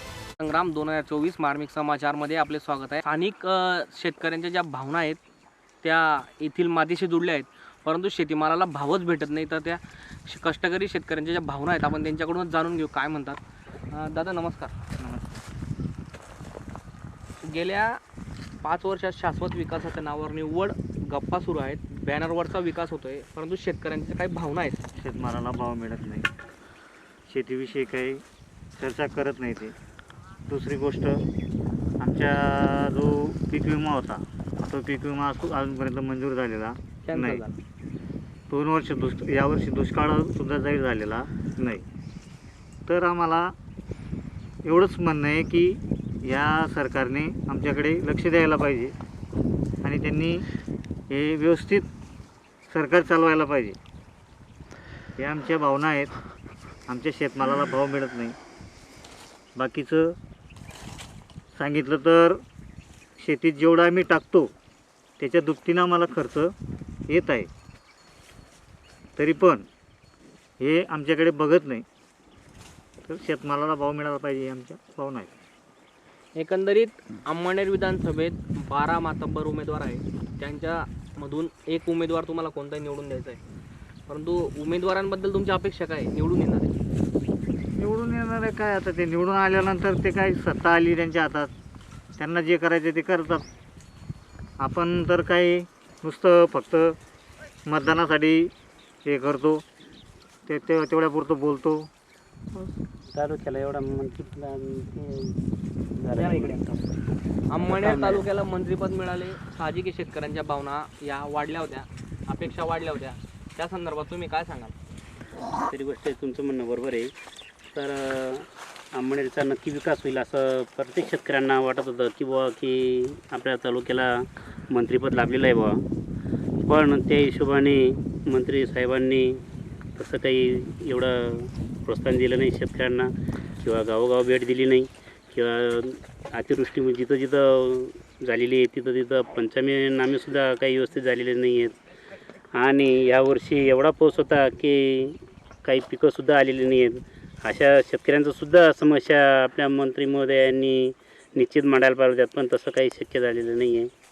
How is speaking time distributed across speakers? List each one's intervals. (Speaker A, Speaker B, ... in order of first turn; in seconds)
Speaker A: 0.4-5.2, 5.8-13.4, 13.9-14.7, 17.4-18.0, 18.6-24.8, 37.0-37.5, 76.4-83.4, 84.1-86.7, 106.2-106.6, 107.5-114.7
Speaker B: 15.0-15.3, 25.0-26.3, 27.3-28.2, 28.8-29.8, 30.5-31.2, 32.0-37.4, 38.5-41.9, 42.9-43.5, 44.6-48.9, 49.8-50.5, 51.1-51.9, 52.7-53.8, 55.2-56.1, 56.9-58.4, 59.6-60.2, 61.5-62.4, 63.2-64.5, 65.2-66.5, 67.1-67.5, 69.2-69.7, 70.6-71.8, 73.0-75.3, 87.8-91.5, 92.2-93.4, 94.6-97.0, 97.7-98.5, 99.0-99.6, 100.5-101.9
Speaker C: 102.5-105.3, 106.0-106.9, 107.6-108.2, 115.6-117.1, 117.7-125.8, 126.6-129.4, 130.0-141.7, 142.6-153.9